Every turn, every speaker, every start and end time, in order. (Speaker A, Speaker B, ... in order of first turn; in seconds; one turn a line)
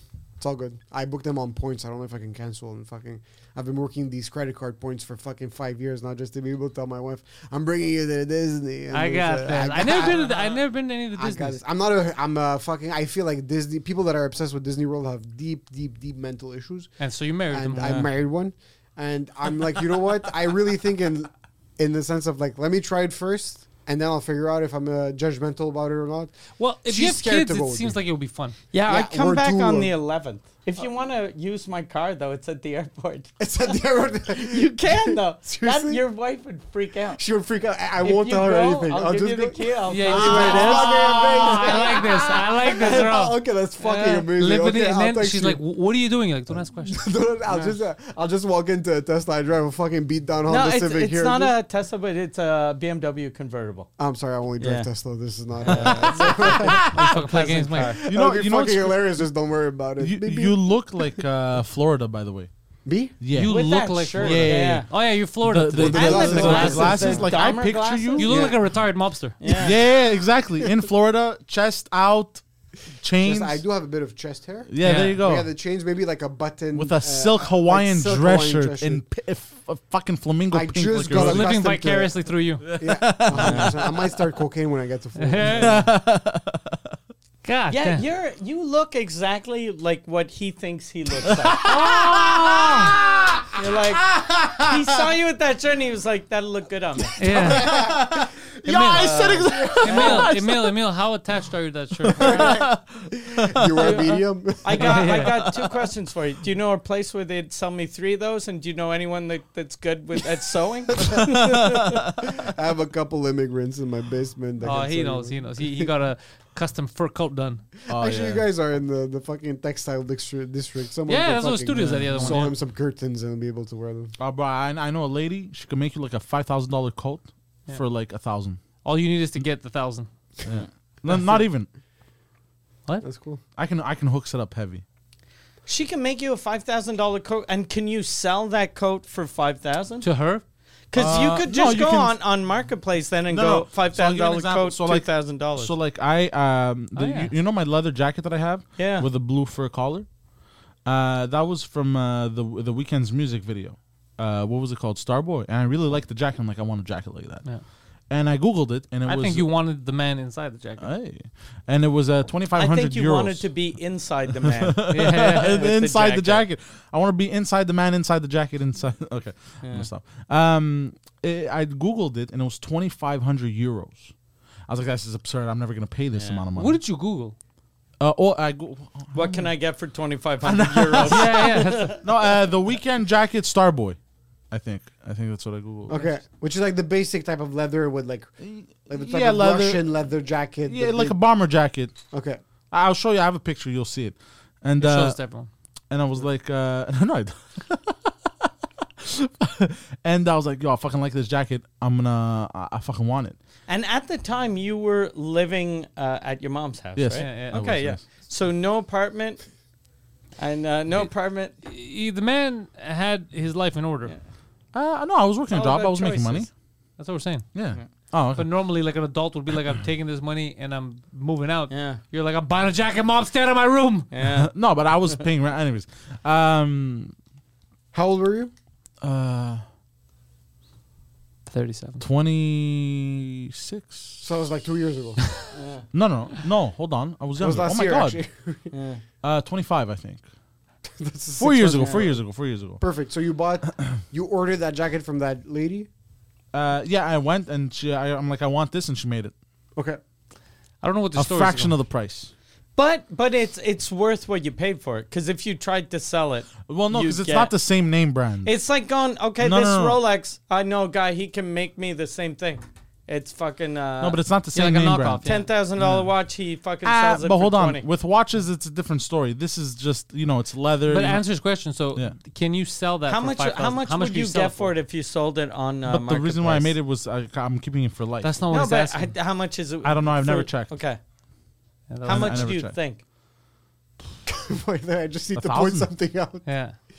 Speaker A: 0.4-10.5
Speaker B: 8.9-11.6
Speaker A: 11.1-16.9
Speaker B: 17.0-18.0
Speaker A: 17.5-26.3
Speaker C: 17.8-18.1
Speaker B: 26.6-28.6
Speaker A: 26.9-28.0
Speaker C: 28.7-33.3
Speaker A: 28.9-29.9
Speaker A: 33.4-36.0
Speaker C: 34.3-37.2
Speaker A: 37.2-45.6
Speaker C: 38.0-42.1
Speaker B: 39.9-47.7
Speaker C: 42.7-43.1
Speaker A: 46.5-51.5
Speaker C: 50.5-53.9
Speaker A: 54.0-56.9
Speaker C: 54.6-54.9
Speaker C: 55.6-58.0
Speaker D: 55.7-57.1
Speaker B: 56.4-58.0
Speaker A: 57.8-60.6
Speaker D: 58.0-59.1
Speaker D: 60.0-62.5
Speaker A: 62.9-63.1
Speaker D: 63.2-68.5
Speaker B: 63.3-67.3
Speaker C: 63.5-64.9
Speaker A: 65.7-67.3
Speaker C: 65.9-68.5
Speaker B: 68.2-69.4
Speaker A: 68.2-68.6
Speaker C: 69.4-69.8
Speaker D: 69.5-72.4
Speaker D: 73.0-73.6
Speaker A: 73.2-79.0
Speaker D: 74.7-75.5
Speaker B: 74.8-75.2
Speaker D: 76.7-81.6
Speaker A: 80.5-85.9
Speaker B: 81.1-82.6
Speaker D: 82.6-84.2
Speaker C: 83.3-83.8
Speaker B: 85.2-85.7
Speaker D: 85.5-86.8
Speaker B: 87.4-88.0
Speaker C: 87.7-91.7
Speaker D: 91.3-94.8
Speaker B: 91.6-92.0
Speaker C: 93.5-97.2
Speaker D: 97.0-100.8
Speaker B: 97.2-97.9
Speaker A: 97.4-98.0
Speaker B: 98.6-102.6
Speaker C: 98.8-100.3
Speaker D: 102.0-104.2
Speaker A: 102.2-102.7
Speaker A: 103.2-105.0
Speaker C: 103.8-104.0
Speaker C: 104.6-111.8
Speaker B: 104.8-105.3
Speaker D: 105.0-105.9
Speaker A: 111.0-115.9
Speaker D: 111.1-112.2
Speaker B: 114.6-117.6
Speaker D: 117.9-118.4
Speaker A: 117.9-124.1
Speaker B: 121.1-122.5
Speaker D: 121.8-122.5
Speaker D: 124.2-128.6
Speaker B: 128.8-130.1
Speaker D: 130.4-131.7
Speaker A: 133.0-133.4
Speaker D: 133.6-134.8
Speaker C: 135.7-140.1
Speaker B: 140.0-140.4
Speaker C: 140.9-145.7
Speaker D: 140.9-142.2
Speaker D: 143.3-150.1
Speaker B: 146.9-147.3
Speaker C: 148.8-149.1
Speaker D: 150.8-157.5
Speaker D: 158.1-159.5
Speaker B: 159.1-160.9
Speaker D: 160.8-163.5
Speaker C: 162.5-166.4
Speaker D: 164.6-174.1
Speaker B: 164.9-165.7
Speaker C: 169.6-169.9
Speaker D: 174.7-176.8
Speaker C: 176.2-176.4
Speaker B: 176.5-177.3
Speaker D: 178.0-179.1
Speaker C: 179.1-182.1
Speaker D: 180.4-184.0
Speaker B: 181.0-182.0
Speaker D: 184.5-186.0
Speaker A: 185.9-191.2
Speaker D: 188.4-189.8
Speaker D: 190.7-191.9
Speaker A: 192.1-192.4
Speaker D: 192.7-195.2
Speaker B: 194.8-195.5
Speaker D: 195.9-198.1
Speaker D: 199.0-203.4
Speaker C: 203.7-209.4
Speaker D: 206.9-208.0
Speaker B: 207.2-207.6
Speaker C: 210.4-211.5
Speaker B: 211.6-214.1
Speaker D: 214.7-216.5
Speaker C: 215.5-216.5
Speaker B: 217.0-217.5
Speaker D: 217.5-218.5
Speaker B: 218.3-224.1
Speaker C: 221.7-222.0
Speaker C: 224.1-224.5
Speaker D: 224.2-227.1
Speaker A: 227.9-228.5
Speaker D: 229.0-229.6
Speaker B: 231.5-232.0
Speaker D: 232.0-234.2
Speaker A: 234.2-235.2
Speaker C: 235.5-235.8
Speaker D: 235.9-238.2
Speaker A: 237.4-238.7
Speaker C: 238.7-239.0
Speaker D: 239.2-240.2
Speaker A: 240.9-242.2
Speaker D: 241.4-242.8
Speaker A: 242.8-245.9
Speaker D: 246.5-249.3
Speaker B: 250.8-251.7
Speaker D: 251.2-252.3
Speaker C: 252.8-257.5
Speaker D: 256.6-258.5
Speaker C: 258.4-264.2
Speaker D: 259.4-260.0
Speaker D: 264.0-265.2
Speaker B: 264.5-265.5
Speaker C: 265.2-267.9
Speaker D: 265.8-266.1
Speaker D: 266.8-271.2
Speaker B: 270.9-274.7
Speaker C: 273.1-276.8
Speaker D: 275.9-278.4
Speaker B: 278.2-279.1
Speaker C: 278.5-281.0
Speaker D: 279.8-280.8
Speaker B: 281.9-282.6
Speaker D: 282.0-282.8
Speaker C: 282.0-283.0
Speaker A: 284.2-286.4
Speaker D: 285.4-285.9
Speaker B: 286.4-286.8